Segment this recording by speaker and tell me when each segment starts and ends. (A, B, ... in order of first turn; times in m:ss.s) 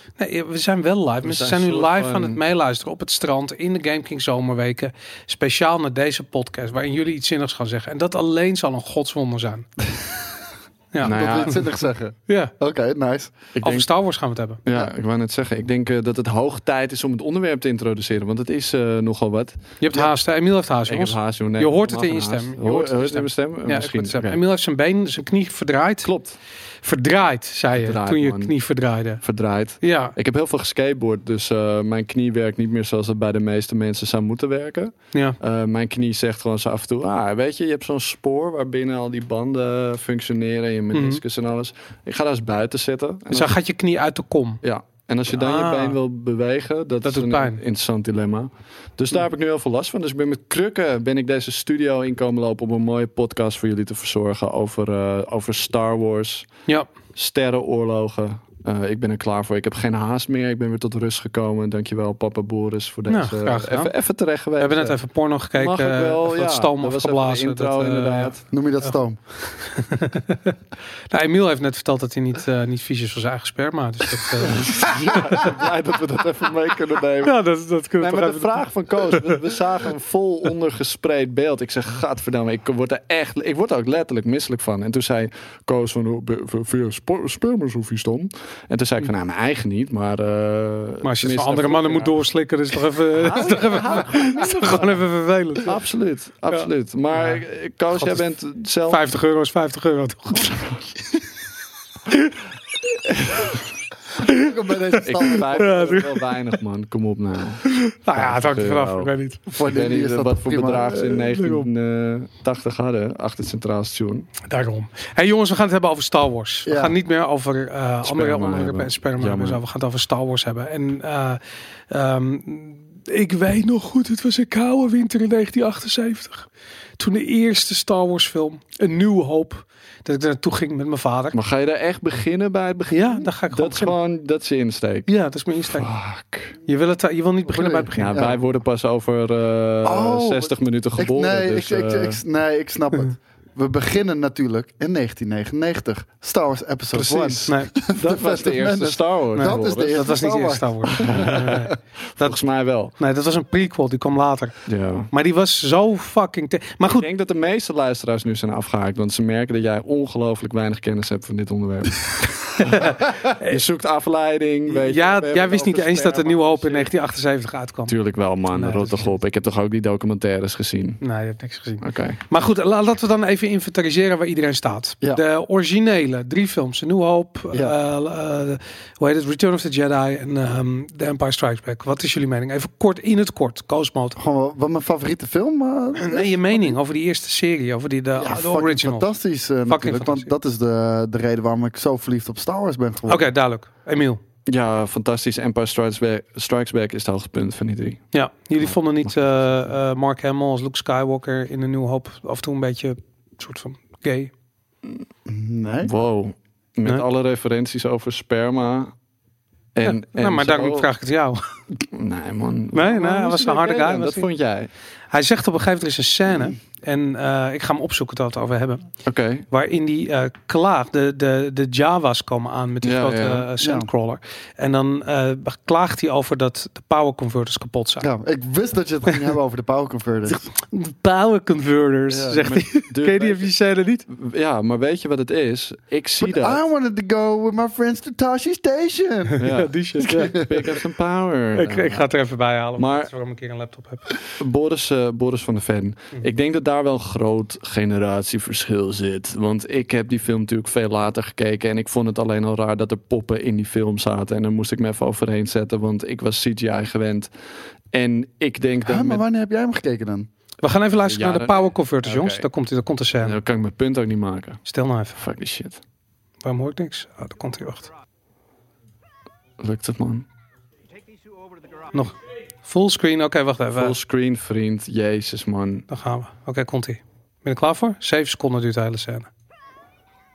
0:00.2-0:09.7 A
0:01.2-0:02.4 B
0:10.9-0:11.6 A
0:11.0-0:11.8 B
0:11.0-0:13.5 C
0:12.3-0:12.5 A
0:13.6-0:13.9 B
0:13.6-0:14.6 A
0:14.6-0:20.1 B
0:19.8-0:26.1 A
0:20.9-0:24.4 B
0:26.0-0:26.4 B
0:26.8-0:29.2 A
0:27.8-0:28.6 B
0:29.2-0:43.5 B
0:29.8-0:30.1 A
0:40.9-0:41.2 A
0:43.3-0:44.6 A
0:44.6-0:56.5 B
0:45.3-0:46.0 A
0:47.0-0:47.6 A
0:57.1-1:05.0 B
1:03.1-1:03.9 A
1:04.6-1:08.9 A
1:05.6-1:08.5 B
1:08.5-1:09.6 C
1:09.7-1:10.6 A
1:11.1-1:15.6 A
1:14.4-1:17.4 B
1:17.2-1:19.4 A
1:18.0-1:32.1 B
1:31.0-1:35.7 A
1:33.2-1:35.0 B
1:35.6-1:39.0 B
1:36.5-1:38.2 A
1:38.9-1:40.6 A
1:42.1-1:42.4 A
1:43.2-1:43.6 B
1:44.2-1:46.3 A
1:44.2-1:45.7 C
1:45.0-1:49.1 B
1:47.6-1:49.4 A
1:49.5-1:51.2 C
1:49.6-1:54.3 B
1:51.2-1:51.7 A
1:54.4-2:11.4 A
1:56.7-1:57.0 C
1:58.0-1:59.6 B
2:11.3-2:15.1 B
2:12.9-2:13.9 A
2:15.1-2:15.9 A
2:15.7-2:16.6 B
2:16.7-2:18.3 A
2:17.5-2:18.4 C
2:18.0-2:22.2 B
2:19.8-2:31.5 C
2:26.9-2:30.0 B
2:29.3-2:32.4 A
2:31.0-2:32.9 B
2:33.0-2:34.5 A
2:34.7-2:35.1 B
2:35.1-2:37.1 A
2:36.9-2:46.9 B
2:42.6-2:43.6 A
2:44.7-2:47.9 A
2:47.9-2:51.0 B
2:48.5-2:49.1 A
2:51.0-3:04.2 A
2:51.8-2:52.2 B
3:04.2-3:06.8 C
3:06.0-3:09.1 A
3:08.2-3:13.2 C
3:09.7-3:10.3 A
3:13.1-3:14.2 A
3:14.4-3:18.0 B
3:18.1-3:24.3 A
3:18.6-3:19.2 B
3:25.3-3:25.9 C
3:25.8-3:28.9 B
3:29.8-3:30.9 B
3:29.8-3:31.4 A
3:31.8-3:34.7 B
3:32.7-3:34.3 A
3:35.1-3:38.9 A
3:39.0-3:39.4 B
3:39.5-3:48.1 A
3:42.8-3:43.5 B
3:43.6-3:43.9 C
3:48.0-3:50.4 C
3:50.4-3:54.0 A
3:52.1-3:53.5 B
3:54.1-3:56.6 B
3:56.2-3:59.4 C
3:59.4-4:02.0 B
3:59.4-4:00.4 A
4:00.0-4:00.6 C
4:01.5-4:04.1 A
4:02.8-4:03.1 B
4:04.4-4:17.3 B
4:17.9-4:19.2 B
4:18.8-4:20.3 C
4:20.6-4:23.4 A
4:21.1-4:22.5 B
4:23.2-4:24.6 B
4:24.6-4:25.2 A
4:25.1-4:25.8 B
4:26.4-4:27.9 A
4:29.6-4:30.2 B
4:31.9-4:33.9 A
4:33.8-4:35.8 B
4:35.9-4:39.3 A